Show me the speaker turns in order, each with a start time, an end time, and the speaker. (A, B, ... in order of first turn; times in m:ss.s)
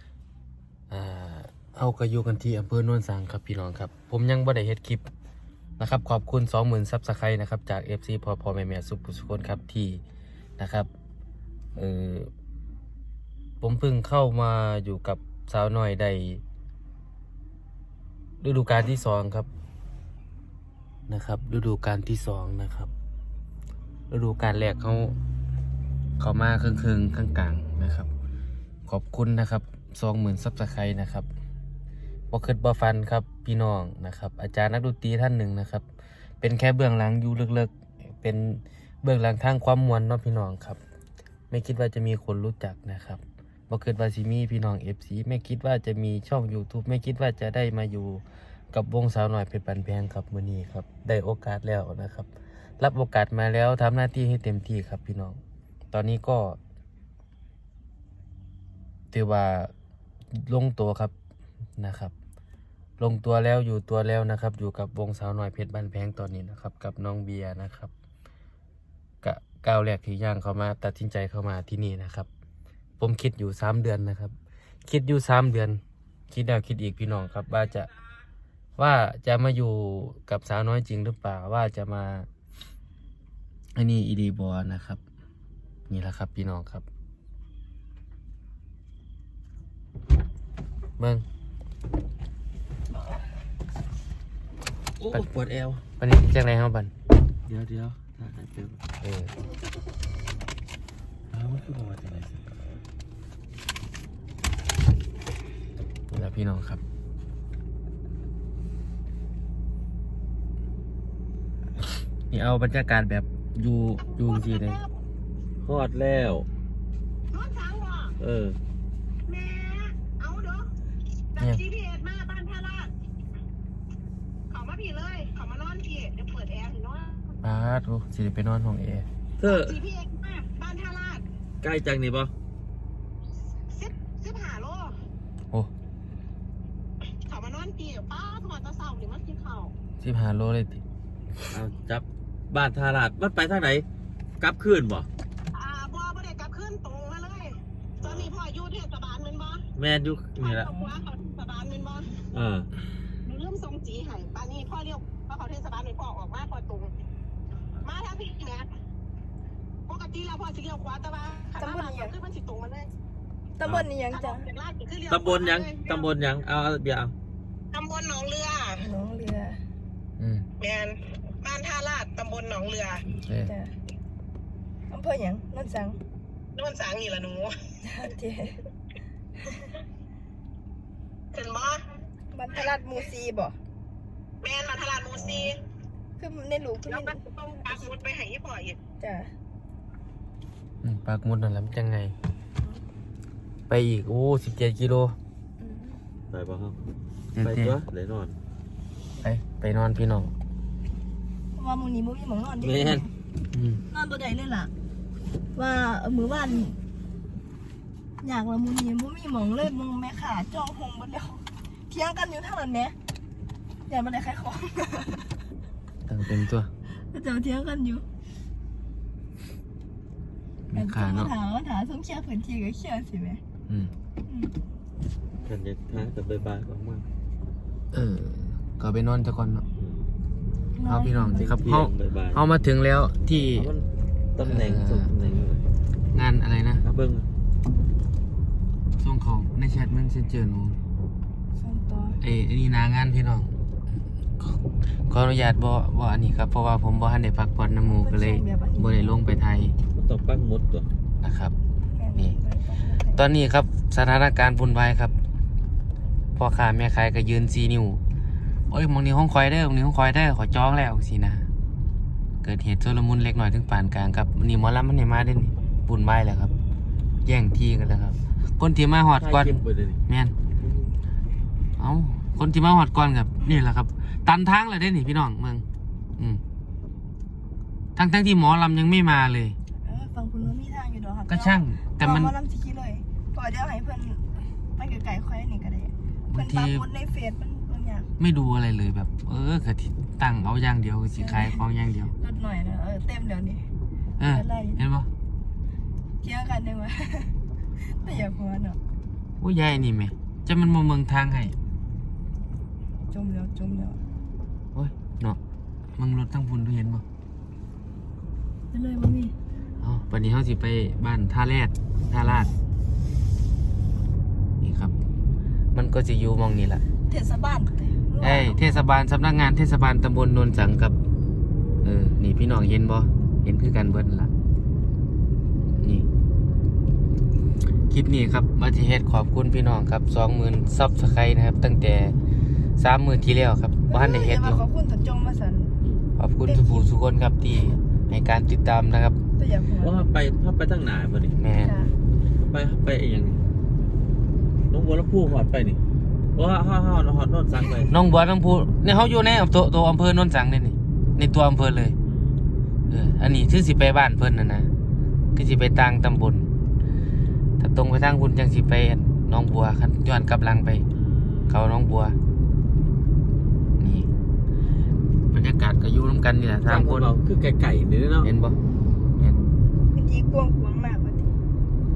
0:00.9-0:05.1 A
0:05.8-0:10.0 A
0:10.6-0:10.9 A
0:11.8-0:12.3 A
0:13.6-0:16.4 A
0:18.4-0:19.5 A
0:21.1-0:22.9 A
0:24.1-0:25.2 A
0:26.2-0:28.1 A
0:28.9-0:31.3 A
0:32.3-0:35.8 A
0:36.4-0:40.8 A
0:41.5-0:52.3 A
0:52.8-0:55.4 A
0:55.9-0:56.6 A
0:59.1-0:59.7 A
1:00.4-1:01.1 A
1:01.8-1:02.1 A
1:03.0-1:07.9 A
1:09.2-1:12.3 A
1:13.0-1:14.3 A
1:14.9-1:15.8 A
1:16.3-1:17.9 A
1:18.8-1:22.3 A
1:23.8-1:25.0 A
1:25.9-1:26.8 A
1:31.0-1:31.2 A
1:35.0-1:35.8 B
1:36.0-1:36.9 A
1:37.5-1:38.8 B
1:39.0-1:39.3 A
1:41.3-1:42.5 B
1:46.1-1:46.8 A
1:52.3-1:54.8 A
1:54.1-1:54.9 C
1:55.6-1:56.5 B
1:57.3-1:58.2 C
1:58.2-1:58.6 B
1:59.3-2:00.7 C
2:01.4-2:02.9 C
2:04.5-2:07.3 C
2:07.4-2:09.1 A
2:09.4-2:09.8 B
2:09.4-2:11.2 C
2:11.6-2:12.3 B
2:13.7-2:15.0 C
2:17.2-2:19.7 C
2:20.0-2:20.8 A
2:21.5-2:23.8 B
2:24.4-2:25.1 B
2:25.5-2:29.6 C
2:28.0-2:28.3 B
2:29.8-2:30.7 B
2:30.4-2:32.2 C
2:30.7-2:30.9 D
2:32.3-2:32.7 B
2:33.2-2:36.9 C
2:37.8-2:38.7 C
2:39.9-2:42.9 C
2:41.6-2:42.2 D
2:43.6-2:44.5 D
2:44.1-2:46.1 C
2:45.1-2:47.1 B
2:47.7-2:48.8 C
2:48.8-2:49.6 D
2:50.2-2:50.5 A
2:50.6-2:53.0 C
2:53.1-2:53.5 A
2:53.4-2:53.7 D
2:54.9-2:56.0 D
2:56.6-2:57.6 C
2:57.8-2:58.6 D
3:01.3-3:01.8 C
3:02.3-3:03.6 D
3:04.4-3:05.6 C
3:05.2-3:05.5 D
3:06.2-3:07.2 D
3:06.9-3:08.8 C
3:09.0-3:09.3 D
3:10.8-3:12.2 A
3:13.7-3:15.2 A
3:15.6-3:16.0 D
3:16.3-3:16.8 B
3:17.4-3:17.8 A
3:17.4-3:18.4 B
3:19.2-3:20.3 A
3:21.6-3:23.1 D
3:22.6-3:23.1 B
3:23.5-3:23.8 A
3:23.9-3:24.7 D
3:25.6-3:26.8 D
3:28.2-3:33.0 D
3:33.9-3:35.4 D
3:36.1-3:36.7 A
3:37.1-3:38.0 D
3:40.7-3:41.3 A
3:40.7-3:43.4 D
3:43.7-3:43.9 A
3:44.3-3:44.5 D
3:45.4-3:47.1 B
3:47.9-3:49.6 A
3:50.7-3:51.5 D
3:50.8-3:53.7 A
3:51.4-3:52.4 B
3:53.6-3:55.7 B
3:54.5-3:55.1 A
3:56.1-3:56.8 A
3:56.8-3:57.3 B
3:59.0-4:00.8 A
4:01.6-4:02.2 D
4:02.2-4:03.5 A
4:05.1-4:09.8 A
4:07.9-4:09.2 D
4:10.0-4:10.9 B
4:11.2-4:11.6 A
4:11.9-4:13.2 D
4:13.1-4:15.2 A
4:16.4-4:18.0 A
4:18.7-4:21.5 A
4:22.4-4:26.5 A
4:27.2-4:30.4 A
4:29.2-4:30.0 B
4:30.6-4:30.9 B
4:31.8-4:35.6 A
4:38.0-4:39.6 A
4:39.8-4:48.1 D
4:41.3-4:42.3 A
4:46.3-4:46.8 A
4:48.2-4:52.1 A
4:51.2-4:51.6 D
4:52.2-4:53.7 D
4:54.2-4:55.1 A
4:54.3-4:54.8 D
4:56.2-4:57.3 D
4:57.8-4:58.8 D
4:59.4-5:01.6 A
5:03.1-5:04.0 D
5:04.8-5:05.4 A
5:06.0-5:07.0 A
5:08.7-5:09.4 D
5:09.8-5:12.5 A
5:14.6-5:15.0 A
5:15.7-5:16.8 A
5:17.1-5:18.8 D
5:18.2-5:21.0 A
5:21.8-5:24.3 A
5:25.8-5:26.1 A
5:27.9-5:32.2 A
5:32.8-5:34.7 A
5:33.9-5:35.8 D
5:36.2-5:39.2 A
5:36.4-5:36.9 D
5:39.4-5:40.1 D
5:39.8-5:41.4 B
5:41.4-5:41.7 A
5:41.6-5:41.9 D
5:42.5-5:43.4 B
5:44.7-5:45.8 B
5:46.4-5:47.9 B
5:47.9-5:52.0 A
5:52.0-5:52.4 B
5:52.9-5:54.7 A
5:55.4-5:56.5 A
5:57.6-6:00.8 A
6:01.0-6:01.6 B
6:01.5-6:02.2 A
6:03.8-6:04.1 A
6:05.3-6:07.1 A
6:06.7-6:08.3 B
6:08.2-6:08.6 A
6:09.2-6:09.5 A
6:09.9-6:11.3 D